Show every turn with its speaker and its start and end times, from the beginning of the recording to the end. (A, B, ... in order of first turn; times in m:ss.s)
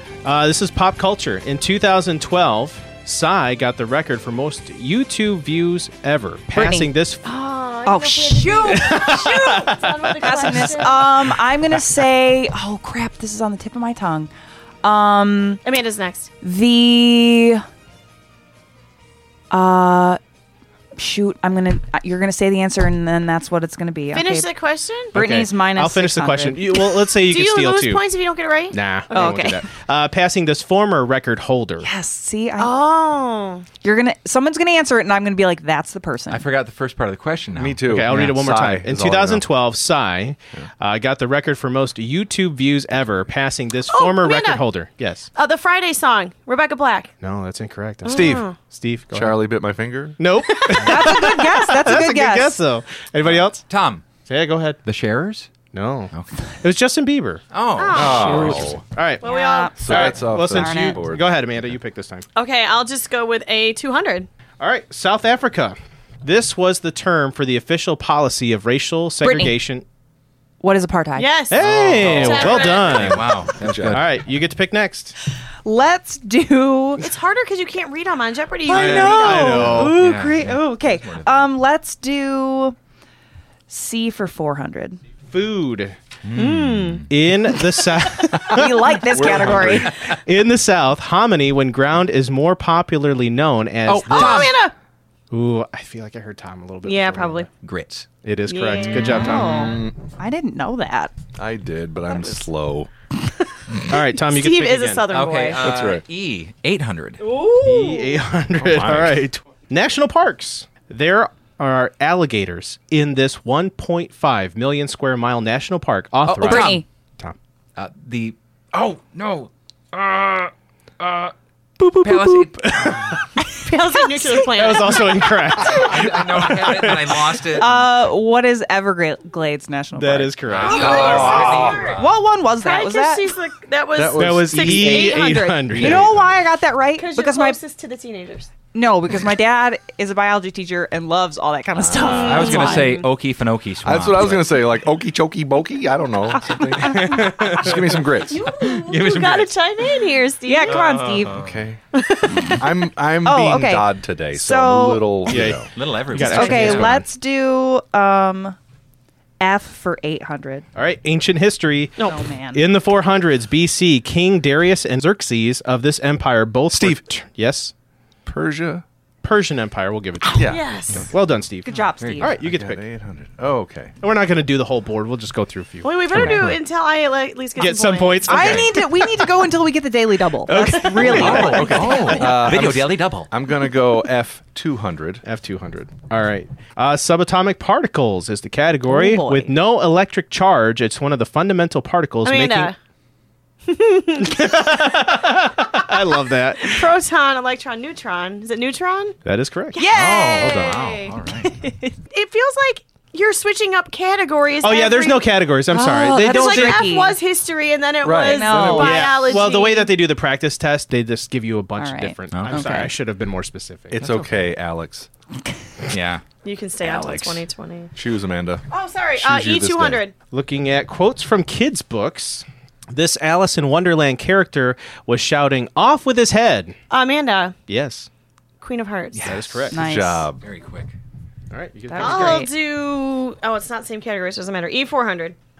0:00.2-0:07.3 A
0:06.5-0:06.9 B
0:07.2-0:11.1 C
0:07.8-0:09.1 B
0:08.7-0:10.8 A
0:10.2-0:14.3 B
0:14.8-0:15.6 B
0:15.6-0:16.3 C
0:16.4-0:17.6 B
0:19.5-0:20.2 B
0:21.0-0:24.5 B
0:24.1-0:25.1 C
0:25.1-0:26.7 B
0:25.1-0:28.1 A
0:27.2-0:28.8 C
0:28.7-0:31.9 A
0:29.1-0:29.7 B
0:31.8-0:32.7 B
0:32.6-0:33.6 C
0:33.8-0:36.4 B
0:36.3-0:38.3 D
0:37.6-0:39.5 E
0:37.9-0:45.3 A
0:43.9-0:44.6 C
0:45.3-0:47.1 C
0:47.2-0:49.4 A
0:48.0-0:48.6 C
0:48.0-0:48.4 E
0:49.1-0:50.2 E
0:50.2-0:53.6 A
0:50.7-0:52.6 B
0:53.2-0:54.0 D
0:54.3-0:54.8 A
0:54.8-0:55.5 D
0:55.7-0:57.4 A
0:56.1-0:56.4 D
0:57.5-0:58.8 D
0:57.7-0:58.4 C
0:57.9-0:58.8 E
0:58.9-1:02.3 A
0:59.2-1:00.0 C
0:59.2-1:01.0 B
0:59.8-1:01.3 E
1:02.3-1:04.3 C
1:04.6-1:09.8 A
1:09.2-1:09.5 B
1:10.6-1:11.4 B
1:11.2-1:13.1 C
1:11.5-1:13.4 A
1:11.6-1:14.0 E
1:12.0-1:14.1 D
1:13.9-1:15.1 A
1:15.6-1:17.1 B
1:17.0-1:19.7 C
1:18.6-1:22.8 B
1:18.7-1:21.4 D
1:18.7-1:20.0 A
1:23.7-1:25.0 B
1:25.3-1:26.0 A
1:26.2-1:27.1 D
1:26.3-1:27.0 C
1:27.1-1:34.6 A
1:28.3-1:29.9 B
1:29.1-1:29.9 E
1:33.8-1:34.6 D
1:34.0-1:34.7 C
1:35.3-1:37.5 A
1:36.8-1:37.5 C
1:37.6-1:38.1 D
1:38.2-1:39.8 A
1:38.4-1:39.3 C
1:39.0-1:41.1 B
1:39.1-1:39.9 E
1:41.4-1:42.9 E
1:42.0-1:42.4 B
1:43.8-1:45.1 A
1:44.2-1:45.8 C
1:45.1-1:47.2 D
1:45.6-1:46.0 E
1:47.2-1:48.1 C
1:47.6-1:57.4 A
1:48.6-1:49.2 E
1:56.2-1:56.8 D
1:56.4-1:56.8 B
1:57.8-2:01.3 D
2:01.8-2:03.5 A
2:02.0-2:03.2 D
2:03.6-2:05.4 C
2:04.3-2:07.6 A
2:05.5-2:07.8 D
2:07.5-2:10.3 B
2:10.0-2:11.9 A
2:10.4-2:12.2 D
2:10.6-2:15.7 C
2:10.7-2:11.8 E
2:12.0-2:13.3 B
2:13.9-2:16.3 E
2:14.2-2:16.1 A
2:15.8-2:17.6 B
2:16.9-2:18.5 C
2:18.7-2:23.0 B
2:21.8-2:22.6 E
2:22.1-2:23.0 C
2:22.2-2:24.6 D
2:23.8-2:28.5 E
2:26.8-2:28.1 A
2:28.2-2:31.0 C
2:28.4-2:29.6 D
2:30.4-2:31.3 B
2:30.6-2:31.6 D
2:31.3-2:31.8 E
2:31.9-2:32.5 C
2:32.5-2:35.7 E
2:33.2-2:35.3 B
2:35.3-2:37.1 A
2:35.7-2:36.9 D
2:36.2-2:38.6 B
2:36.2-2:36.7 E
2:39.4-2:40.6 B
2:40.7-2:47.7 A
2:42.0-2:42.6 B
2:46.7-2:47.0 E
2:48.2-2:48.8 E
2:49.2-2:52.8 A
2:50.3-2:51.0 E
2:50.4-2:51.1 C
2:51.6-2:52.4 B
2:51.7-2:52.2 D
2:52.4-2:53.9 E
2:54.0-2:56.5 A
2:55.8-2:58.6 C
2:56.2-2:56.5 D
2:57.6-2:58.9 A
2:58.3-3:02.2 B
2:58.3-2:58.7 D
3:00.4-3:02.2 A
3:00.9-3:01.3 C
3:01.0-3:05.2 E
3:01.2-3:03.3 D
3:05.2-3:12.7 A
3:08.9-3:09.5 B
3:12.2-3:12.8 C
3:13.6-3:15.0 C
3:14.2-3:16.9 A
3:16.6-3:19.2 C
3:19.2-3:19.8 A
3:19.7-3:21.1 C
3:19.8-3:20.7 B
3:19.9-3:21.5 D
3:20.3-3:21.0 A
3:21.4-3:21.9 B
3:22.1-3:25.3 C
3:24.6-3:26.9 A
3:25.7-3:27.2 B
3:26.1-3:30.0 C
3:28.0-3:29.2 E
3:28.2-3:29.1 B
3:28.7-3:34.0 A
3:31.8-3:32.9 B
3:32.3-3:32.9 D
3:33.9-3:35.1 E
3:34.0-3:34.5 D
3:35.9-3:36.2 D
3:36.4-3:37.9 C
3:36.8-3:37.4 E
3:38.0-3:38.6 E
3:38.7-3:40.1 C
3:39.2-3:40.0 E
3:40.3-3:46.8 A
3:46.9-3:47.6 C
3:47.7-3:48.1 A
3:48.6-3:49.3 C
3:49.1-3:49.8 D
3:49.2-3:49.8 A
3:49.7-3:50.3 B
3:49.7-3:50.4 E
3:50.4-3:50.9 D
3:51.5-3:52.5 A
3:51.9-3:52.5 B
3:52.0-3:55.4 C